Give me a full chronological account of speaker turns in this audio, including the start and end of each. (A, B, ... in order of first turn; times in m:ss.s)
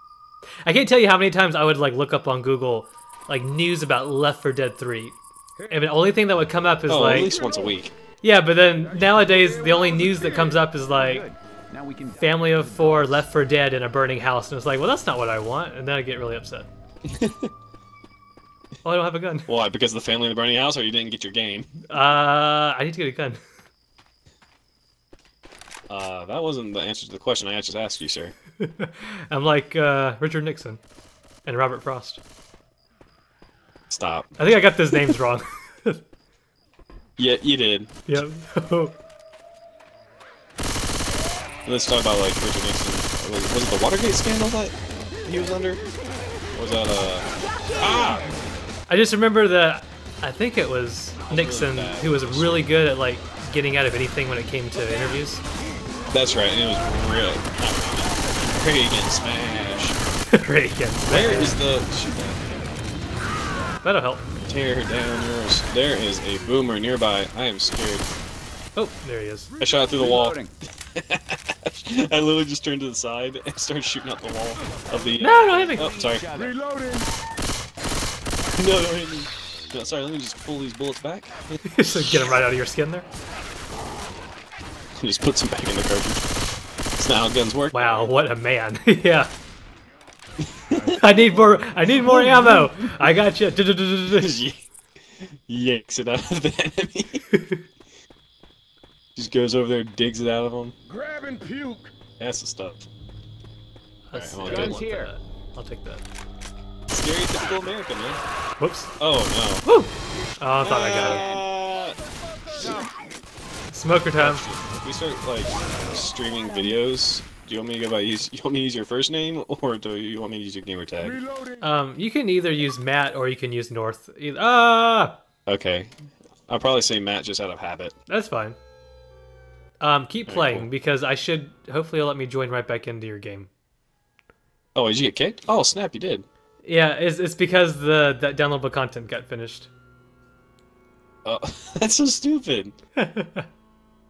0:00.6-0:05.2 A
0:05.6-0:05.9 B
0:05.7-0:07.3 A
0:06.9-0:07.9 C
0:07.1-0:07.8 B
0:08.2-0:11.2 A
0:08.8-0:10.6 B
0:10.9-0:13.3 D
0:12.2-0:16.7 A
0:17.1-0:17.5 C
0:18.8-0:19.5 A
0:19.5-0:21.8 C
0:21.9-0:23.4 A
0:25.9-0:28.3 C
0:28.6-0:30.8 A
0:31.4-0:32.2 A
0:33.9-0:34.3 C
0:34.4-0:36.0 A
0:37.2-0:38.2 C
0:38.1-0:39.0 A
0:41.6-0:45.8 C
0:46.5-0:48.3 C
0:48.9-0:55.4 A
0:51.3-0:52.8 C
0:56.1-1:00.0 C
1:00.3-1:01.6 A
1:01.1-1:02.8 C
1:03.8-1:04.3 A
1:04.4-1:08.1 C
1:08.8-1:09.5 A
1:09.6-1:16.2 C
1:09.9-1:10.5 D
1:15.2-1:15.9 A
1:15.7-1:16.6 D
1:16.3-1:17.1 B
1:18.6-1:22.4 C
1:21.6-1:23.0 A
1:25.0-1:26.2 C
1:27.0-1:28.1 C
1:27.7-1:29.3 A
1:30.4-1:31.0 C
1:30.7-1:31.1 D
1:31.0-1:34.4 A
1:34.1-1:34.7 C
1:35.2-1:37.2 C
1:37.3-1:37.6 A
1:39.2-1:40.7 C
1:40.9-1:41.9 B
1:42.2-1:42.8 C
1:44.1-1:46.0 A
1:44.1-1:44.8 C
1:44.4-1:45.1 D
1:46.9-1:48.2 C
1:48.6-1:48.9 A
1:49.0-1:49.6 C
1:49.6-1:51.2 A
1:50.6-1:52.0 C
1:52.5-1:52.8 B
1:53.7-1:54.4 A
1:54.1-2:01.2 C
2:01.1-2:01.6 B
2:01.6-2:05.2 A
2:05.4-2:05.9 C
2:06.5-2:07.9 C
2:08.1-2:08.6 A
2:09.8-2:13.5 A
2:10.3-2:10.7 C
2:14.7-2:16.2 C
2:16.6-2:19.7 A
2:21.2-2:22.7 C
2:23.0-2:23.4 A